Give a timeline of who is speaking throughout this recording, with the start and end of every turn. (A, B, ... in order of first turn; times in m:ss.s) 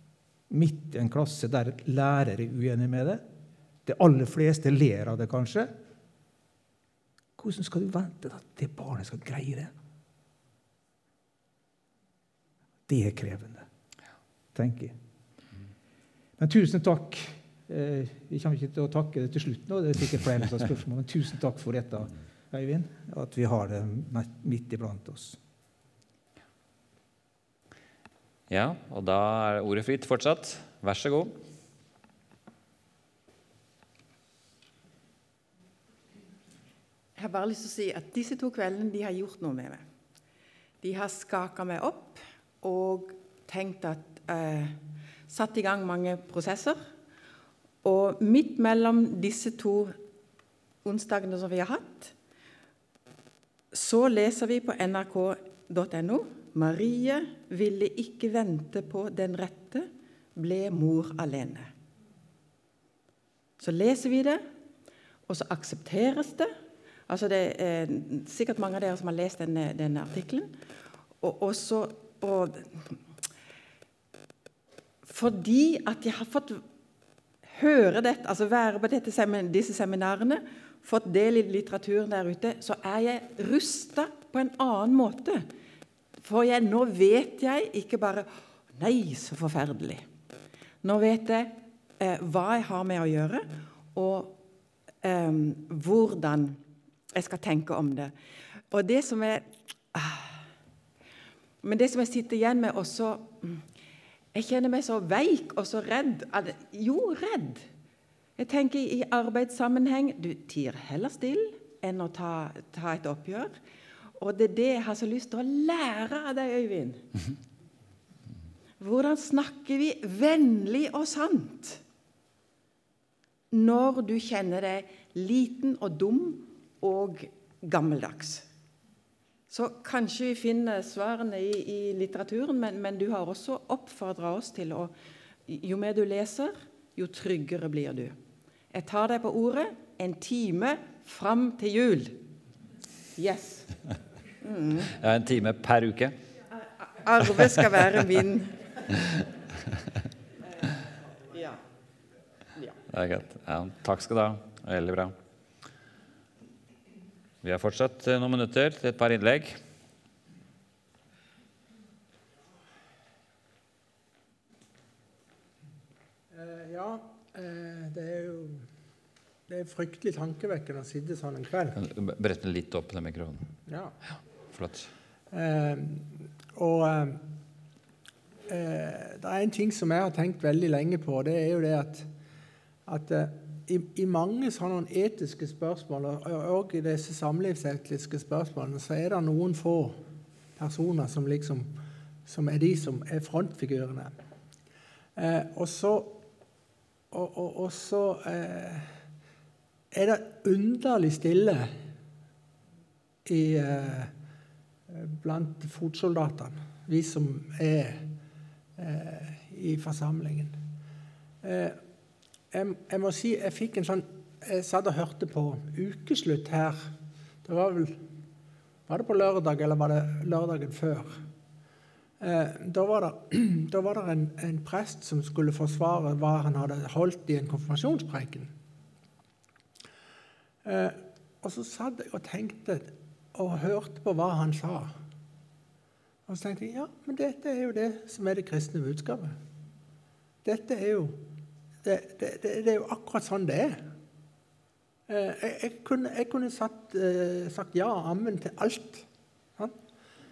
0:00.5-0:03.2 A
0:03.8-0:05.7 A
0:07.4-0:09.7 A
0:12.9-0:13.7 A
0:14.5-0:15.0 A
0:16.4-0:25.4 A
0:28.5-0:31.4 B
0:37.2-0:39.8 C
0:40.8-0:46.8 C
0:47.8-0:50.0 C
0:50.8-0:52.1 C
0:53.7-1:01.7 C
1:03.6-1:04.4 C
1:05.3-1:06.5 C
1:07.1-1:10.5 C
1:11.2-1:13.0 C
1:15.0-1:16.6 C
1:17.4-1:25.5 C
1:26.2-1:30.0 C
1:30.8-1:34.4 C
1:35.0-1:36.6 C
1:37.1-1:38.1 C
1:38.7-1:40.4 C
1:41.6-1:43.6 C
1:44.3-1:47.7 C
1:48.4-1:53.5 C
1:54.2-1:57.0 C
1:58.8-2:01.8 C
2:03.5-2:08.4 C
2:09.5-2:14.9 C
2:15.5-2:18.2 C
2:18.7-2:22.2 C
2:23.2-2:23.7 C
2:24.4-2:24.9 C
2:24.9-2:26.2 B
2:26.8-2:28.6 C
2:31.3-2:31.6 C
2:32.9-2:35.1 B
2:37.4-2:39.6 B
2:46.3-2:48.6 D
2:49.5-2:51.8 D
2:51.8-2:53.5 B
2:53.7-2:54.0 D
2:54.5-2:54.9 B
2:55.3-2:57.2 D
2:58.5-3:02.1 D
3:02.9-3:10.0 D
3:10.6-3:11.7 D
3:12.3-3:14.1 D
3:15.2-3:16.2 D
3:17.1-3:18.9 D
3:19.9-3:21.7 D
3:23.2-3:24.1 D
3:24.9-3:28.1 D
3:28.8-3:30.6 D
3:31.4-3:31.8 D
3:32.5-3:36.9 D
3:37.4-3:38.0 D
3:38.9-3:41.2 D
3:42.2-3:48.5 D
3:50.6-3:54.9 D
3:56.3-3:59.4 D
4:00.4-4:01.2 D
4:01.8-4:03.8 D
4:05.1-4:09.0 D